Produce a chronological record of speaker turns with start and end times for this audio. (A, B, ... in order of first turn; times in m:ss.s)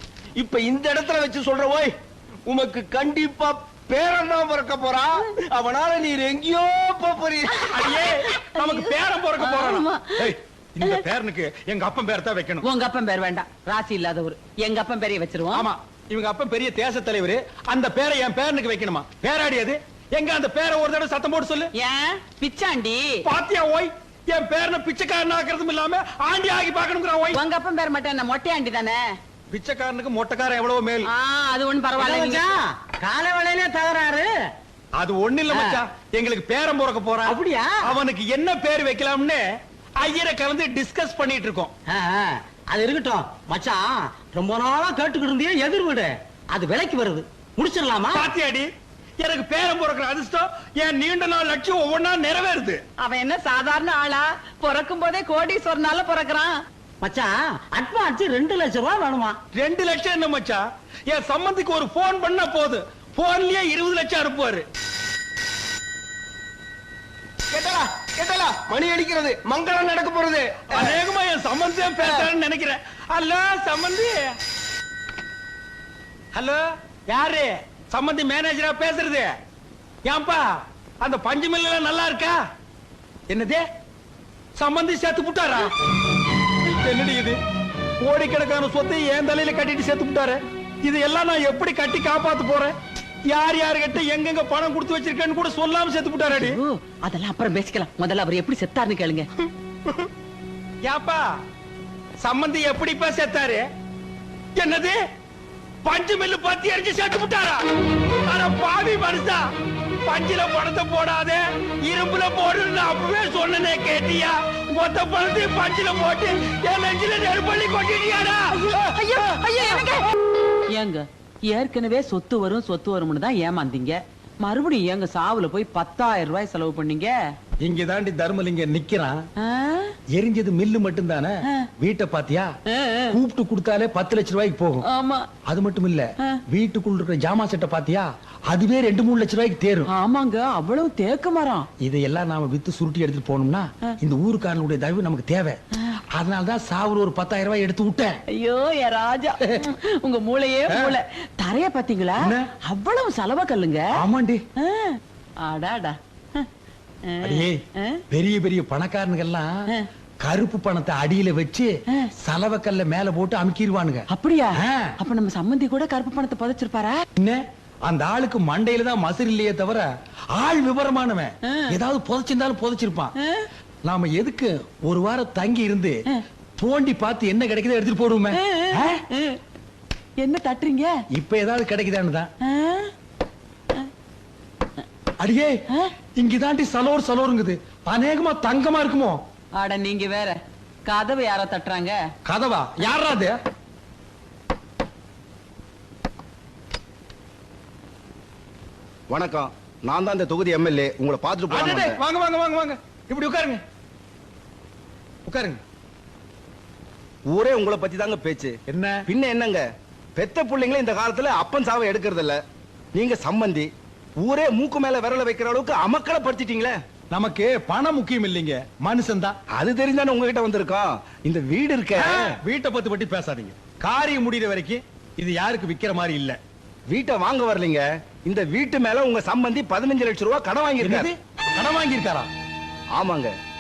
0:00.4-0:01.9 A
0:02.5-0:07.6 A
0:07.6-0:12.7 B
0:07.8-0:10.3 C
0:12.6-0:15.7 C
0:15.5-0:21.7 B
0:21.8-0:23.2 C
0:23.2-0:27.4 B
0:27.3-0:29.0 C
0:29.5-0:31.1 B
0:31.0-0:32.5 C
0:32.0-0:34.3 D
0:35.0-0:39.4 B
0:35.5-0:35.8 D
0:37.2-0:37.9 D
0:40.0-0:41.7 B
0:41.9-0:48.3 D
0:48.1-0:48.7 B
0:49.2-0:52.8 B
0:53.0-0:56.6 C
0:57.0-0:59.4 D
0:59.5-1:04.7 B
1:08.2-1:09.4 E
1:09.4-1:10.5 A
1:10.7-1:14.4 B
1:16.4-1:19.3 B
1:20.0-1:20.4 B
1:21.0-1:22.4 B
1:23.3-1:23.6 B
1:24.6-1:25.7 B
1:26.8-1:27.4 B
1:28.0-1:32.8 B
1:33.3-1:36.6 B
1:36.3-1:39.3 C
1:40.8-1:41.2 B
1:42.2-1:43.7 B
1:44.6-1:45.0 B
1:45.9-1:47.6 B
1:48.3-1:49.4 B
1:50.1-1:58.5 B
1:58.6-2:00.0 C
2:00.7-2:07.2 C
2:07.6-2:09.2 B
2:09.4-2:10.0 C
2:10.1-2:12.5 B
2:12.7-2:13.2 C
2:13.1-2:14.8 B
2:14.9-2:15.2 C
2:15.5-2:19.9 B
2:19.9-2:21.7 C
2:21.8-2:25.6 B
2:26.1-2:28.2 B
2:28.3-2:33.8 C
2:30.7-2:31.0 B
2:32.2-2:32.5 B
2:34.0-2:34.4 B
2:34.6-2:36.5 C
2:37.1-2:38.0 C
2:37.2-2:37.6 B
2:38.1-2:39.5 B
2:40.2-2:41.7 B
2:42.2-2:44.1 B
2:44.1-2:47.0 C
2:44.6-2:44.9 B
2:47.2-2:53.1 B
2:53.8-2:56.0 B
2:56.6-2:59.0 B
2:58.3-2:59.4 C
3:00.2-3:00.9 C
3:01.1-3:02.3 B
3:02.5-3:02.9 C
3:05.2-3:05.6 B
3:06.2-3:09.2 B
3:09.6-3:12.0 C
3:12.3-3:13.3 B
3:19.1-3:22.0 E
3:21.5-3:23.6 B
3:25.3-3:25.6 B
3:27.3-3:28.6 E
3:28.7-3:29.0 B
3:29.1-3:29.6 E
3:30.2-3:32.4 E
3:32.9-3:33.7 E
3:34.2-3:36.8 E
3:37.1-3:39.4 B
3:39.5-3:42.4 E
3:42.0-3:46.4 B
3:46.9-3:51.1 E
3:50.8-3:52.3 B
3:53.0-3:53.3 E